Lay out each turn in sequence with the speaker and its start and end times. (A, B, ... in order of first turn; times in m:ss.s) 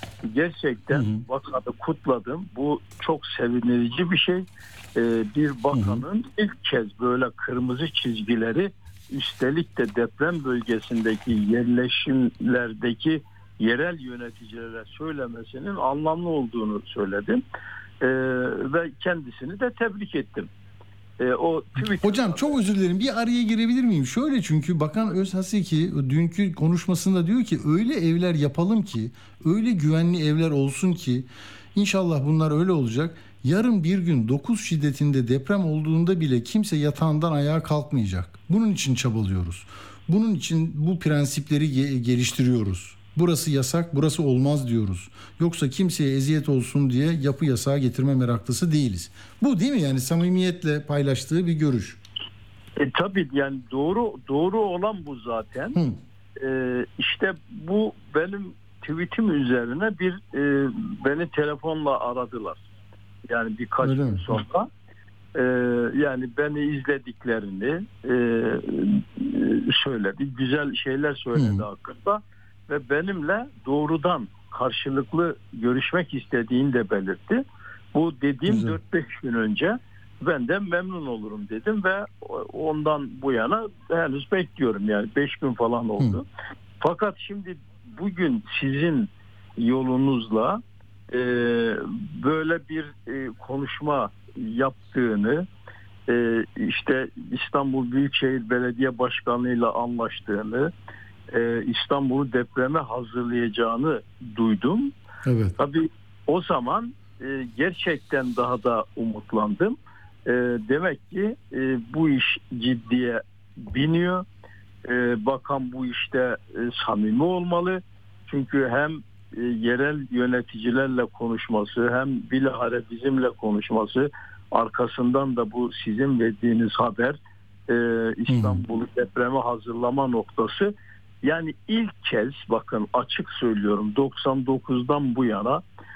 0:00.2-0:17.4 A
0:00.9-0:01.2 B
0:05.7-0:06.0 B
0:18.0-0:20.5 A
0:21.2-0:22.6 A
0:21.9-0:52.0 B
0:52.8-0:55.8 A
0:56.4-1:02.6 A
1:03.3-1:04.7 A
1:03.8-1:04.4 B
1:05.3-1:26.2 A
1:11.3-1:11.6 B
1:18.5-1:18.8 B
1:26.8-1:35.5 A
1:36.1-1:40.7 A
1:41.3-1:44.9 A
1:45.2-1:45.6 B
1:45.6-1:54.2 A
1:54.8-2:15.6 A
2:08.3-2:08.6 B